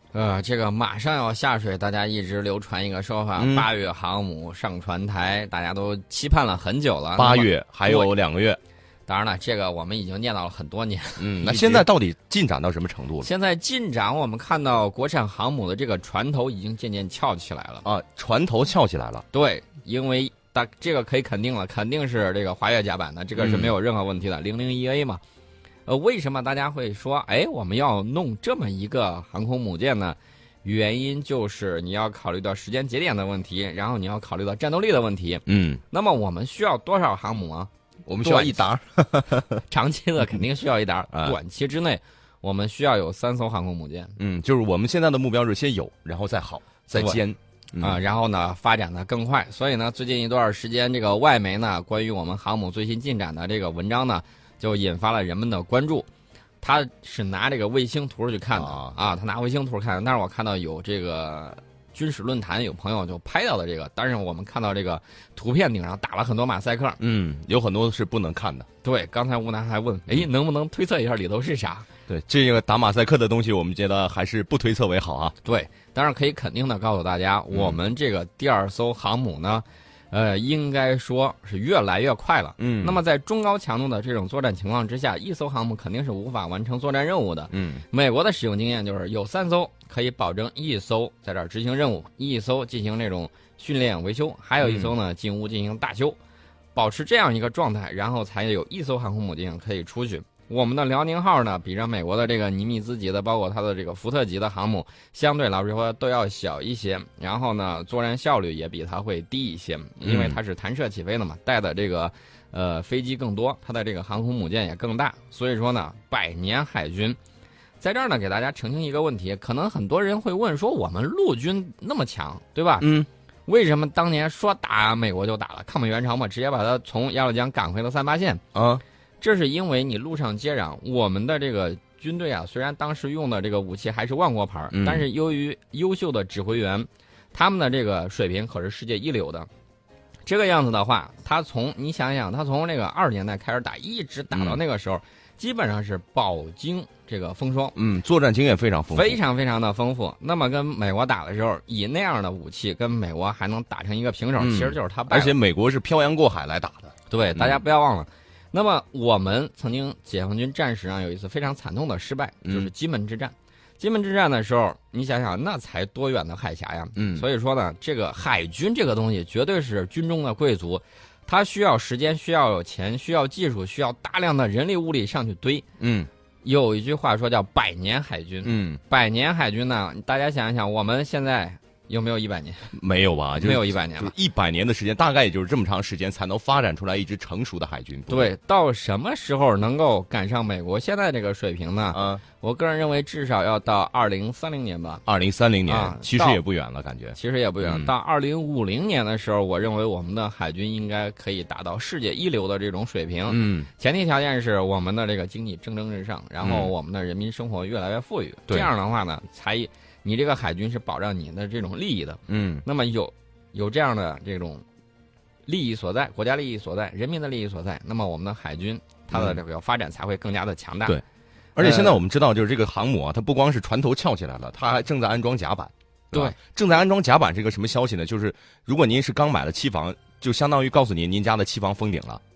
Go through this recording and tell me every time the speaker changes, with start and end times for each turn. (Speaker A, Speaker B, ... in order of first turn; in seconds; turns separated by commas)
Speaker A: 0.1-8.1, Speaker B: 3.4-3.7, Speaker B: 7.2-8.6, Speaker A: 9.1-11.9, Speaker B: 11.2-13.3, Speaker A: 13.2-17.9, Speaker B: 17.8-19.2, Speaker A: 19.3-25.2, Speaker B: 23.4-23.7, Speaker A: 25.9-37.7, Speaker B: 35.5-35.8, Speaker B: 38.1-39.6, Speaker A: 38.2-38.7, Speaker A: 39.7-44.1, Speaker B: 41.1-41.4, Speaker B: 44.2-48.0, Speaker A: 46.9-47.2, Speaker A: 47.8-56.1, Speaker A: 56.6-67.0, Speaker B: 58.5-59.0, Speaker B: 67.0-68.7, Speaker A: 68.8-71.9, Speaker B: 72.1-75.3, Speaker A: 75.4-96.2, Speaker B: 77.5-77.8, Speaker B: 82.6-83.0, Speaker B: 87.5-87.8, Speaker B: 94.6-94.9, Speaker A: 96.8-117.2, Speaker B: 110.0-110.4, Speaker A: 117.8-123.0, Speaker B: 122.8-123.1, Speaker A: 123.5-128.4, Speaker B: 128.5-128.8, Speaker A: 129.2-139.5, Speaker B: 134.7-135.1, Speaker A: 140.3-147.8, Speaker B: 144.3-144.6, Speaker B: 147.8-149.2, Speaker A: 148.9-155.4, Speaker B: 154.4-157.6, Speaker A: 157.1-175.7, Speaker B: 162.4-162.7, Speaker B: 167.0-167.3, Speaker B: 175.8-176.1, Speaker A: 176.4-182.7, Speaker B: 178.4-178.8, Speaker B: 182.7-188.3, Speaker A: 183.4-184.1, Speaker A: 188.1-195.0, Speaker B: 191.9-192.2, Speaker B: 195.1-197.9, Speaker A: 195.7-196.4, Speaker A: 197.2-214.6, Speaker B: 203.3-203.7, Speaker B: 206.4-206.7, Speaker B: 212.3-212.6, Speaker A: 215.5-221.0, Speaker B: 219.1-219.4, Speaker B: 221.6-232.2, Speaker A: 221.6-222.0, Speaker A: 226.1-226.4